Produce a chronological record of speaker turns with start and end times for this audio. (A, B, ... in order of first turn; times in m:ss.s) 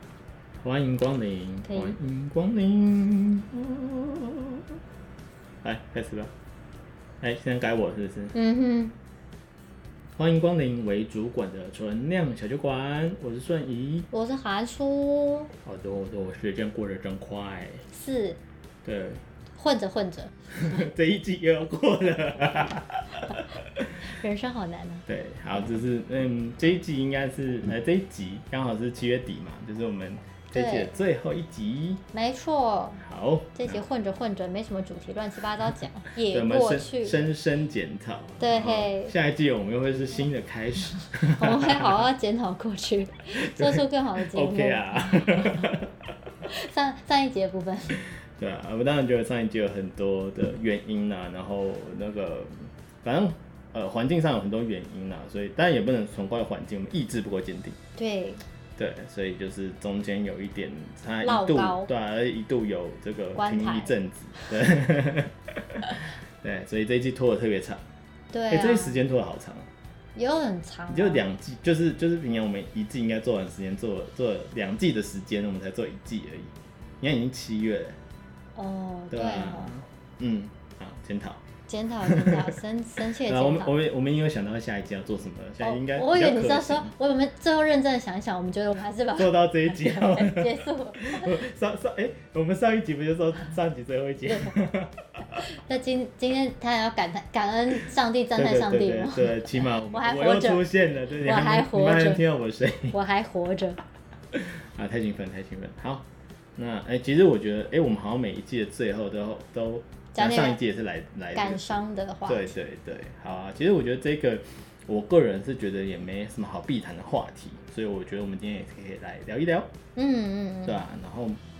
0:00.6-0:04.7 A
0:01.7-0:01.9 B
0:05.6-0:06.3 A
0:07.2-0:08.3 A
0:08.3-0:08.9 B
0:10.2-0:14.1 A
0:14.1-0:15.5 B
0:15.6-0:17.8 A
0:17.9-0:18.4 B
0:18.8-0:19.2 A
0:19.6-0:20.3 B
0:20.5-0:24.1 A
0:24.0-0:25.0 B
0:25.0-0:32.0 A
0:30.5-0:31.0 B
0:32.1-0:33.0 B
0:33.0-0:33.8 A
0:33.5-0:37.3 B
0:36.2-0:42.0 A
0:38.4-0:39.1 B
0:41.2-0:45.7 B
0:43.3-0:46.1 A
0:46.4-0:48.0 B
0:48.4-0:52.5 A
0:53.0-0:57.8 A
0:58.0-0:58.4 B
0:58.8-1:07.8 A
1:01.2-1:01.9 B
1:03.4-1:03.9 B
1:08.3-1:09.0 B
1:08.5-1:09.7 A
1:10.1-1:11.2 B
1:10.9-1:18.0 A
1:18.6-1:19.7 B
1:19.1-1:21.4 A
1:21.7-1:23.7 B
1:22.0-1:27.0 A
1:25.6-1:31.4 B
1:29.2-1:35.4 A
1:34.3-1:34.6 B
1:35.3-1:40.6 B
1:38.4-1:43.0 A
1:41.2-1:42.2 B
1:42.9-1:43.8 B
1:44.3-1:46.0 A
1:46.6-1:59.7 A
1:50.1-1:50.6 B
1:51.3-1:52.6 B
2:00.0-2:00.8 B
2:00.6-2:01.4 A